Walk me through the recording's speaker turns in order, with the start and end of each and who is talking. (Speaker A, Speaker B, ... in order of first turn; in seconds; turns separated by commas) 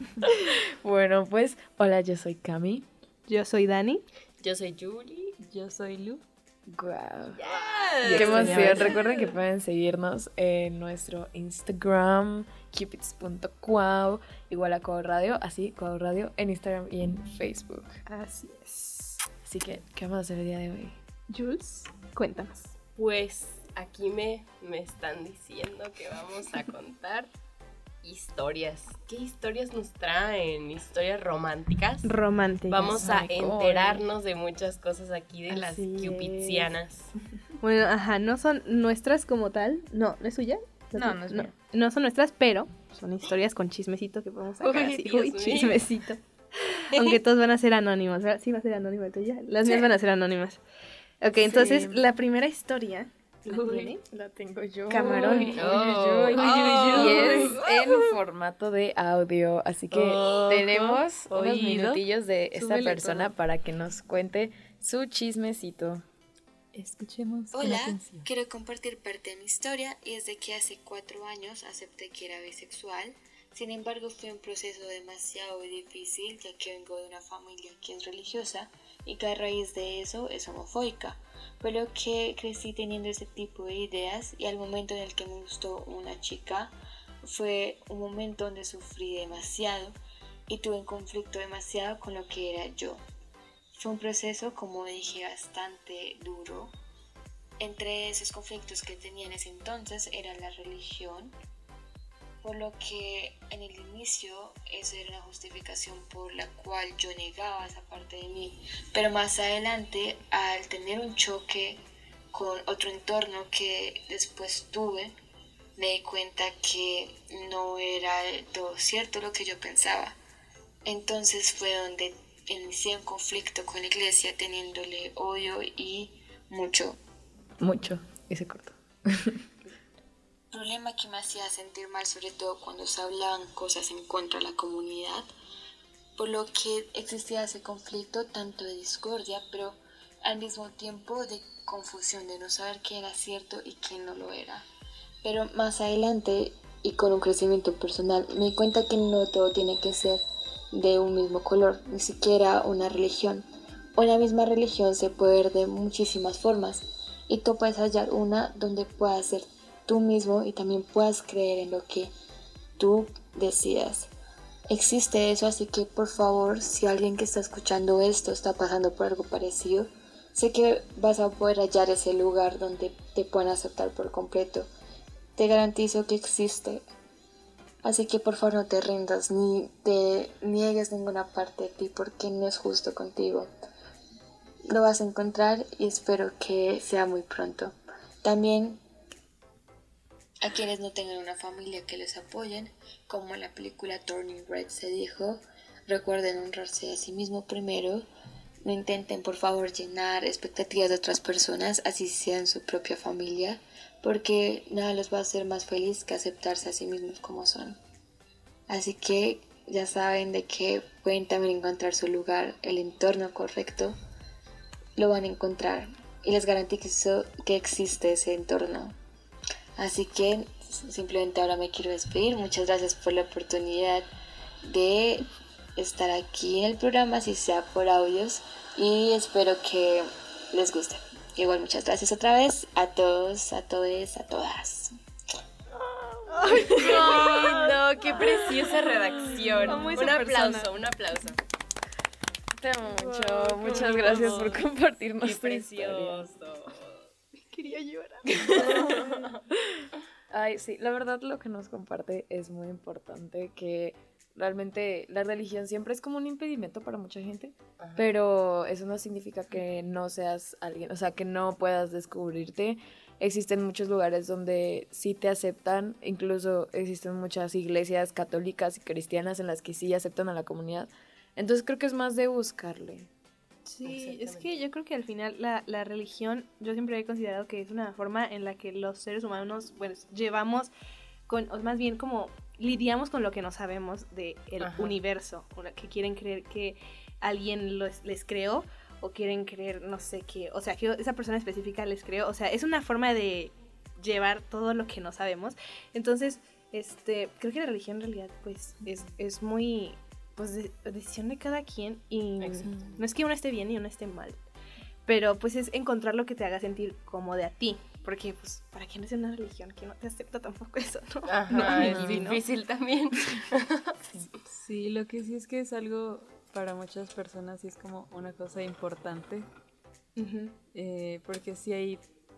Speaker A: 0.3-2.9, Speaker B: 3.3-4.0, Speaker C: 4.4-5.3, Speaker D: 5.4-6.2, Speaker A: 6.7-7.4, Speaker C: 7.4-8.8, Speaker D: 7.5-9.0, Speaker A: 8.1-18.0, Speaker B: 8.2-8.9, Speaker B: 18.1-19.2, Speaker A: 19.4-21.0, Speaker B: 21.3-22.7, Speaker C: 23.0-27.3, Speaker C: 28.0-32.1, Speaker B: 32.0-33.1, Speaker C: 32.7-37.1, Speaker A: 33.0-34.0, Speaker B: 35.6-36.7, Speaker B: 37.6-46.2, Speaker A: 41.0-41.5, Speaker C: 44.6-45.8, Speaker B: 46.8-50.6, Speaker B: 51.2-54.0, Speaker D: 51.4-52.0, Speaker D: 53.5-53.9, Speaker A: 54.1-66.0, Speaker B: 54.9-55.6, Speaker D: 55.0-58.0, Speaker C: 55.6-56.4, Speaker B: 56.9-57.2, Speaker D: 59.9-62.0, Speaker B: 62.6-63.2, Speaker D: 66.7-68.3, Speaker E: 67.5-86.7, Speaker E: 87.2-90.0, Speaker E: 90.5-93.0, Speaker E: 93.8-96.7, Speaker E: 97.6-101.3, Speaker E: 102.4-115.1, Speaker E: 115.8-120.2, Speaker E: 120.9-127.0, Speaker A: 127.6-128.7, Speaker E: 130.5-135.3, Speaker E: 136.2-144.7, Speaker E: 145.2-150.2, Speaker E: 150.7-162.1, Speaker E: 162.8-164.1, Speaker E: 164.7-174.7, Speaker E: 175.4-176.8, Speaker E: 177.8-183.5, Speaker E: 184.7-188.8, Speaker E: 190.4-198.1, Speaker E: 198.7-207.8, Speaker E: 208.7-213.9, Speaker E: 215.0-219.0, Speaker E: 219.8-224.1, Speaker E: 224.7-225.3, Speaker E: 225.8-234.9, Speaker B: 236.3-237.8, Speaker C: 236.6-241.4, Speaker B: 239.6-240.7, Speaker A: 242.6-246.3, Speaker C: 243.1-244.5, Speaker C: 245.2-247.0, Speaker B: 247.5-249.0, Speaker A: 248.5-248.9, Speaker C: 248.7-249.3, Speaker A: 250.3-273.1, Speaker C: 257.8-258.1, Speaker B: 273.7-280.7, Speaker C: 273.8-274.5, Speaker B: 281.3-304.4, Speaker C: 284.6-285.0, Speaker C: 302.4-303.0, Speaker B: 305.1-312.4, Speaker C: 311.3-313.9, Speaker D: 311.8-312.2, Speaker D: 314.5-319.5, Speaker B: 320.2-320.6, Speaker D: 320.7-322.0